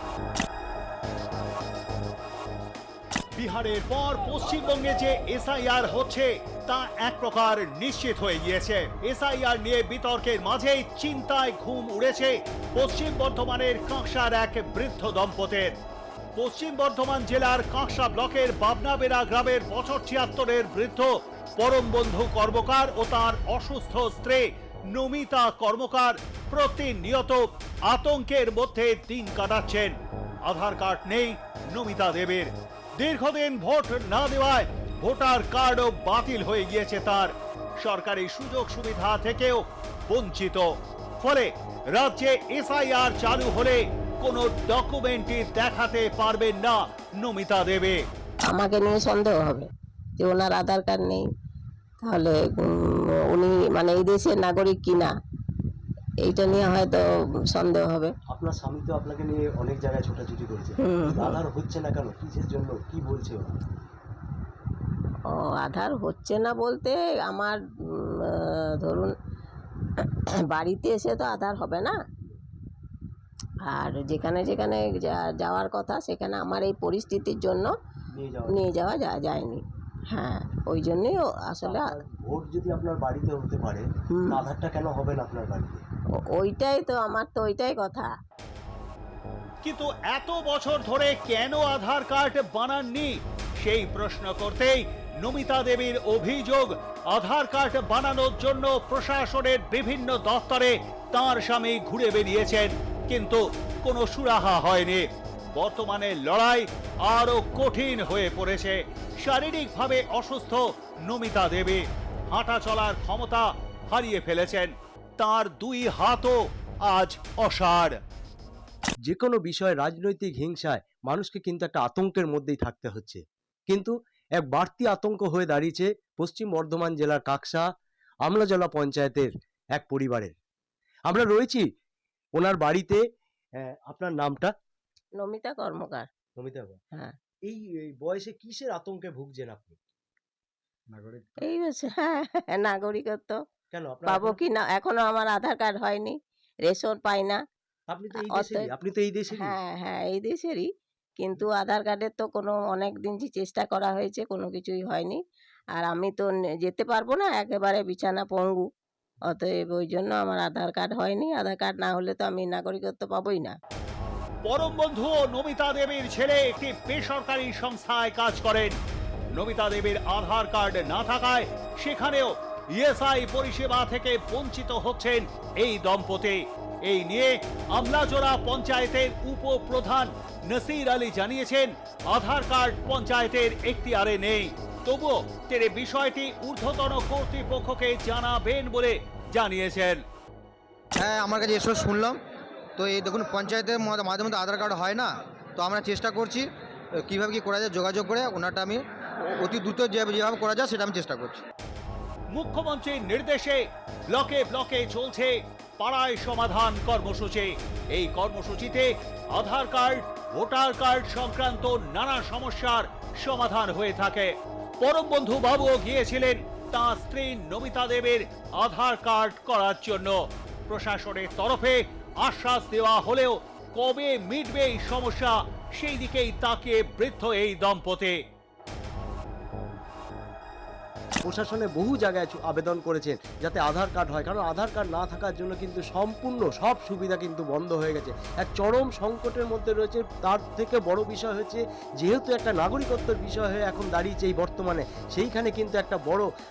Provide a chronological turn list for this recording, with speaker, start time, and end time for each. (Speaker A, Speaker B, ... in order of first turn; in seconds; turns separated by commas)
Speaker A: 3.4-15.8, Speaker A: 16.4-48.0, Speaker B: 48.5-49.7, Speaker B: 50.2-51.2, Speaker B: 52.0-55.1, Speaker B: 56.2-58.1, Speaker C: 58.3-63.6, Speaker B: 60.8-61.4, Speaker B: 65.3-69.1, Speaker B: 70.0-72.0, Speaker B: 73.7-77.7, Speaker C: 78.1-78.6, Speaker B: 78.5-82.0, Speaker C: 81.6-85.9, Speaker B: 84.1-84.4, Speaker B: 86.3-88.1, Speaker A: 89.6-118.0, Speaker C: 119.0-127.7, Speaker C: 128.2-130.4, Speaker C: 131.1-131.7, Speaker C: 132.3-133.0, Speaker C: 133.6-134.5, Speaker B: 135.2-136.1, Speaker C: 136.4-136.8, Speaker C: 137.5-139.8, Speaker C: 140.9-141.4, Speaker B: 141.4-143.4, Speaker C: 143.7-144.4, Speaker B: 144.1-146.2, Speaker B: 146.7-147.4, Speaker C: 147.9-149.6, Speaker B: 148.2-148.7, Speaker B: 149.3-150.7, Speaker B: 151.2-155.2, Speaker B: 155.8-158.7, Speaker B: 159.3-163.6, Speaker A: 164.4-168.8, Speaker A: 169.3-190.0, Speaker D: 191.0-192.2, Speaker D: 192.8-201.4, Speaker A: 202.3-228.2, Speaker C: 231.2-246.3